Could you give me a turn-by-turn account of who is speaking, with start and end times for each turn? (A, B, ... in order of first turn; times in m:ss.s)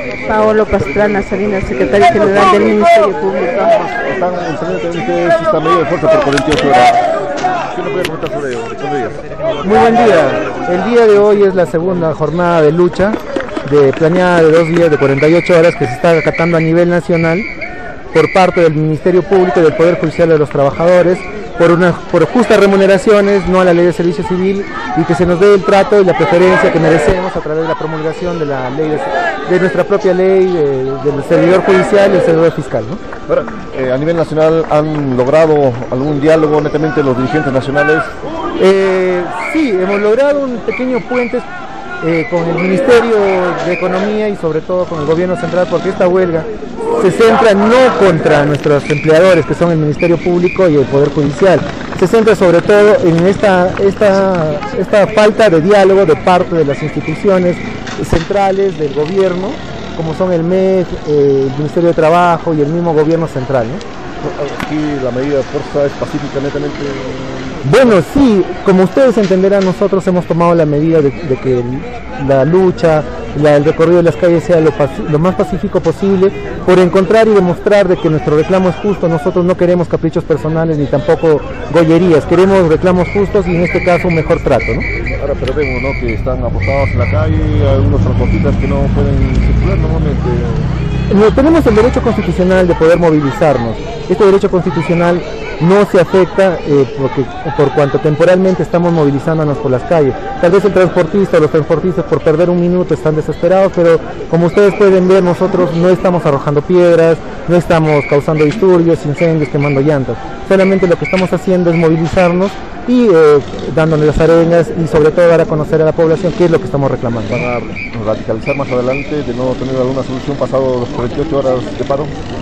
0:00.2-0:03.8 A
0:00.9-0:02.8 B
0:03.7-0:07.2 B
0:07.7-0:09.2 B
0:09.6-0:17.5 C
0:18.1-0:33.0 C
0:33.3-0:38.1 B
0:38.6-0:41.5 C
0:42.0-1:03.8 C
1:04.2-1:07.9 B
1:07.6-1:24.9 C
1:25.2-1:30.7 B
1:31.1-1:57.5 C
1:57.3-2:02.1 B